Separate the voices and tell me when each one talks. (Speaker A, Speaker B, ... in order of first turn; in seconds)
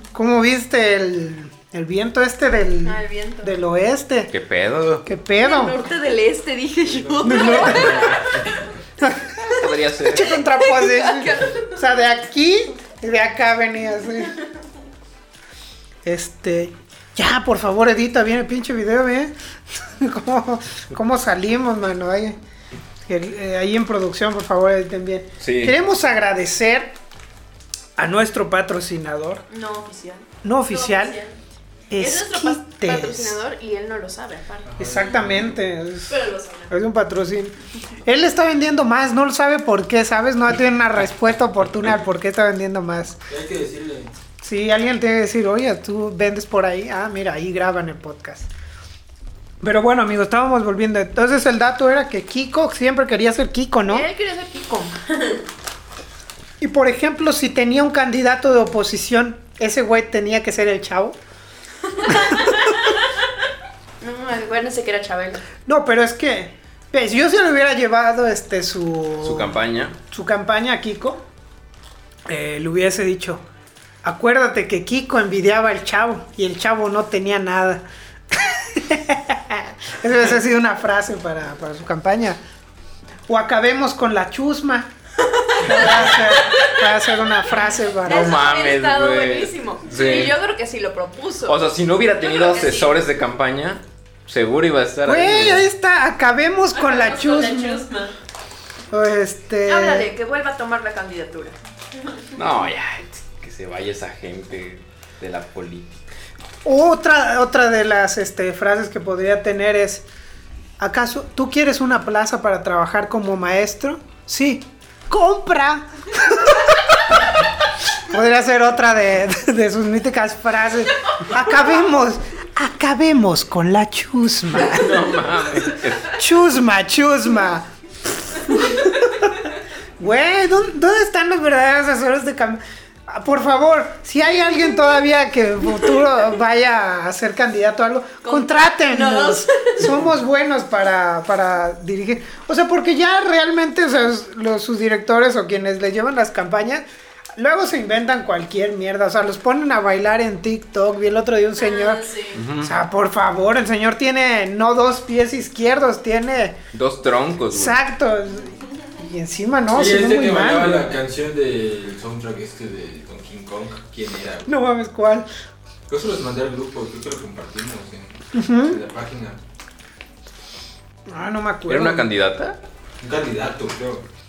Speaker A: 0.1-4.3, 5.0-5.9, 7.2-8.1, 9.0-14.3, 16.0-22.4, 23.1-26.9, 28.0-29.4, 30.4-31.2, 31.9-33.4, 34.8-43.2, 44.4-48.5, 49.6-54.1, 56.6-61.2, 65.7-71.2, 72.3-73.4, 74.0-82.4, 83.3-84.9, 85.6-88.5, 95.0-97.8, 98.9-100.1, 106.6-110.0, 110.8-116.7, 118.1-129.5, 130.0-146.8, 147.3-156.6, 157.5-160.9, 164.4-165.3, 168.3-168.8, 171.1-172.1
Speaker B: 2.8-3.5, 5.4-8.2, 10.6-11.7, 29.5-31.3, 32.0-34.7, 36.1-36.7, 53.9-55.0, 64.0-65.4, 88.0-91.7, 92.2-93.0, 99.7-101.5
Speaker C: 4.3-5.1, 9.5-10.3, 25.4-25.8, 69.2-70.0, 88.0-90.4, 91.4-95.6, 102.3-106.0, 124.5-126.2, 152.3-152.7, 156.7-157.8, 171.7-172.6
Speaker D: 6.8-8.6, 34.6-35.6, 43.3-44.1, 159.7-164.5, 165.9-169.4, 173.0-174.0
Speaker E: 86.2-86.7, 96.7-98.1, 138.2-139.8, 151.6-152.4